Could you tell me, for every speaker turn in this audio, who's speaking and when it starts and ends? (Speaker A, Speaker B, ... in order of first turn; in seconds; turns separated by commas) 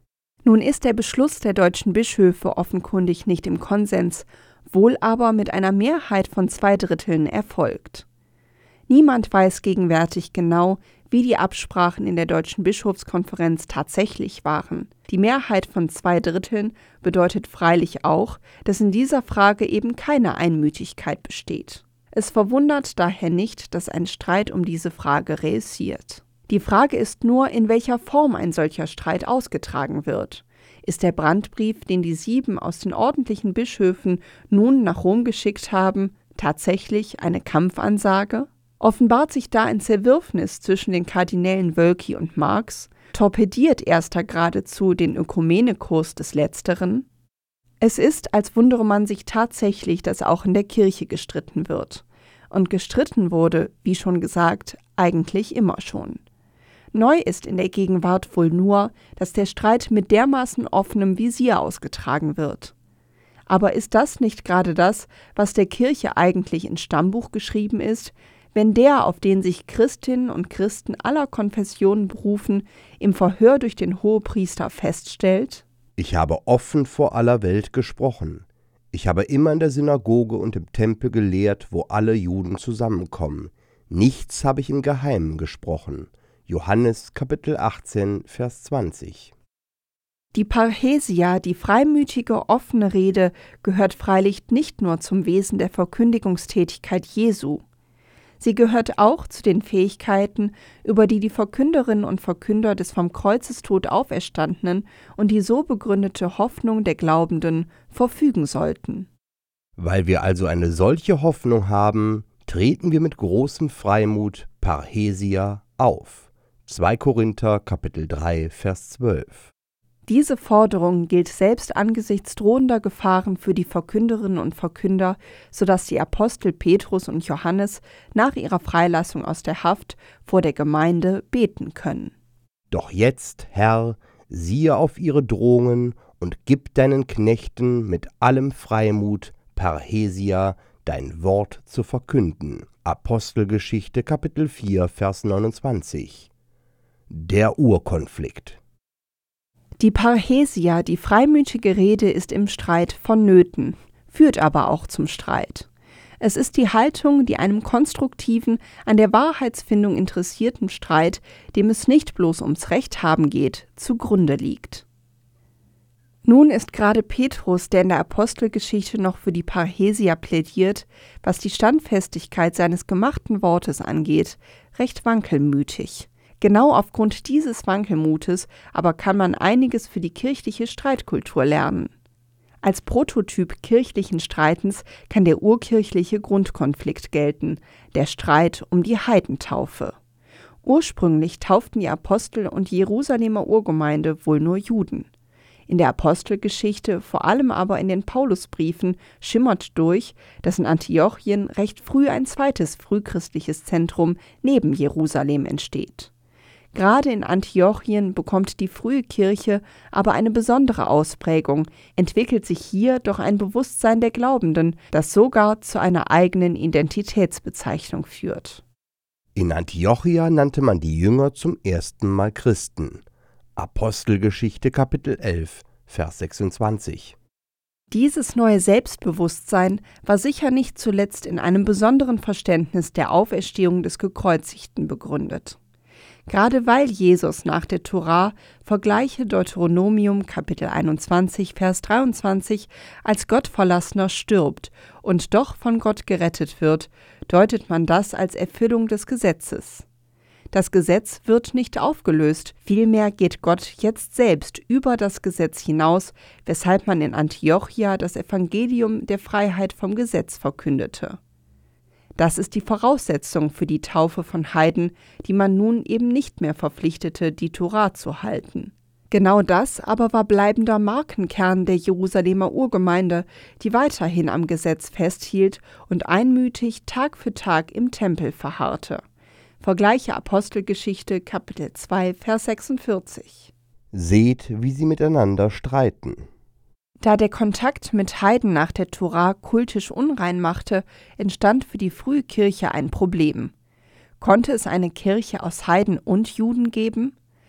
Speaker A: 0.4-8.0, Speaker A: 8.9-47.0, Speaker A: 47.8-56.2, Speaker A: 56.9-62.7, Speaker A: 63.5-75.6, Speaker B: 76.0-89.3, Speaker A: 90.3-97.6, Speaker A: 98.4-109.1, Speaker B: 109.8-119.5, Speaker A: 120.1-132.1, Speaker B: 132.7-146.3, Speaker B: 147.1-148.6, Speaker A: 149.8-155.7, Speaker A: 156.2-164.8, Speaker A: 166.2-181.9, Speaker A: 182.6-189.9, Speaker A: 190.6-195.1, Speaker A: 195.7-206.1, Speaker A: 206.7-218.6, Speaker B: 219.3-223.0, Speaker B: 223.6-227.2, Speaker A: 227.9-235.6, Speaker A: 236.3-249.8, Speaker A: 250.5-261.2, Speaker A: 262.2-279.0, Speaker A: 279.6-283.5, Speaker B: 283.9-286.3, Speaker A: 287.0-293.5, Speaker A: 294.2-297.1